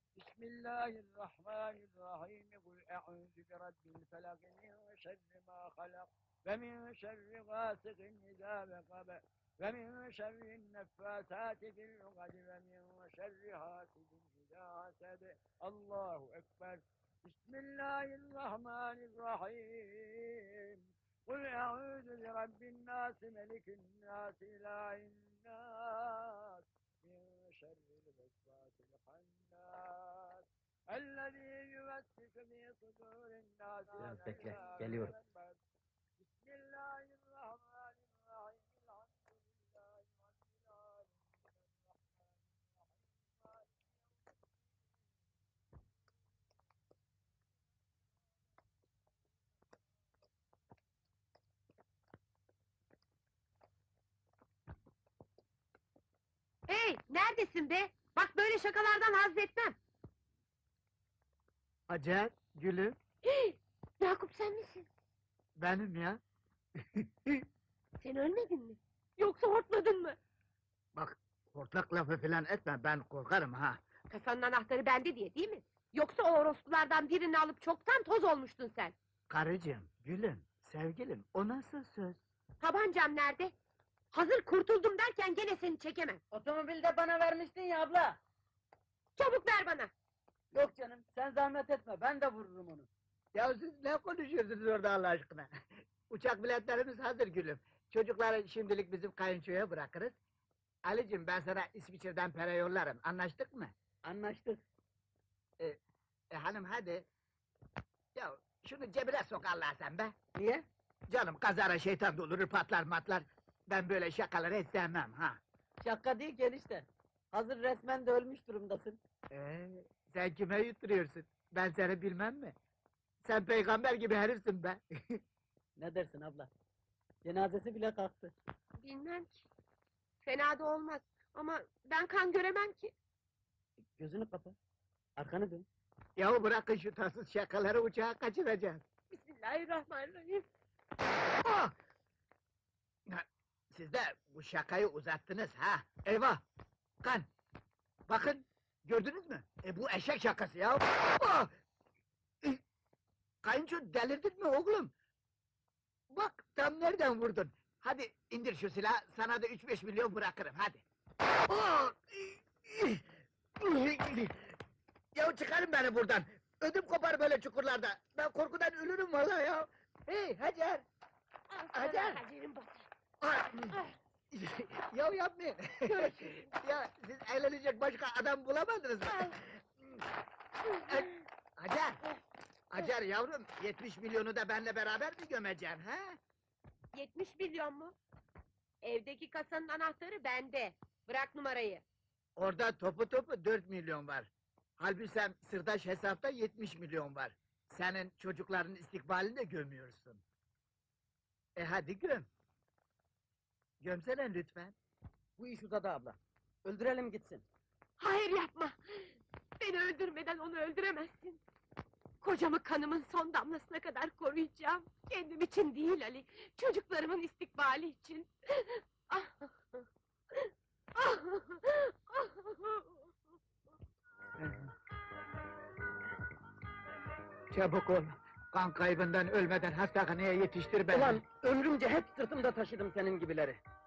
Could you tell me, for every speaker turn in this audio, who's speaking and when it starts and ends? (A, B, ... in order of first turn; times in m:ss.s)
0:00.2-0:35.6 A
0:34.0-0:35.2 B
0:36.2-0:43.8 A
0:56.7-0:59.8 C
1:01.9-1:03.0 D
1:03.2-1:04.9 C
1:05.6-1:06.2 D
1:07.0-1:07.4 D
1:08.0-1:10.2 C
1:11.0-1:13.8 D
1:14.1-1:18.9 C
1:19.3-1:22.2 D
1:22.6-1:23.5 C
1:24.1-1:26.2 C
1:26.3-1:28.2 B
1:29.2-1:29.9 C
1:30.5-1:32.9 B
1:33.4-1:35.5 D
1:36.1-1:40.2 D
1:40.8-1:43.7 D
1:44.0-1:44.6 B
1:46.3-1:47.1 D
1:48.2-1:50.1 D
1:50.3-1:50.6 B
1:51.1-1:55.4 D
1:55.8-1:59.0 B
1:59.3-2:02.5 D
2:03.2-2:05.2 D
2:05.8-2:06.5 B
2:07.2-2:08.3 B
2:08.8-2:09.5 C
2:10.2-2:12.9 C
2:14.0-2:14.6 B
2:15.2-2:15.7 B
2:16.2-2:18.8 D
2:19.1-2:20.5 C
2:21.4-2:21.7 D
2:23.1-2:26.4 D
2:27.0-2:27.3 D
2:28.1-2:31.5 D
2:33.4-2:34.9 D
2:36.1-2:40.8 D
2:41.5-2:43.0 D
2:43.6-2:44.6 D
2:45.2-2:50.8 D
2:51.5-2:52.9 C
2:51.8-2:52.2 D
2:53.2-2:53.8 D
2:54.3-2:59.6 D
2:55.9-2:56.5 C
2:59.1-2:59.4 C
3:00.8-3:01.2 C
3:00.9-3:02.0 D
3:02.7-3:06.2 D
3:06.9-3:08.0 C
3:08.8-3:11.8 C
3:12.4-3:20.2 D
3:21.6-3:22.3 D
3:23.8-3:24.7 D
3:25.4-3:27.4 B
3:28.0-3:31.4 C
3:32.2-3:43.1 C
3:44.4-3:44.7 D
3:47.5-3:51.2 D
3:50.9-3:53.6 B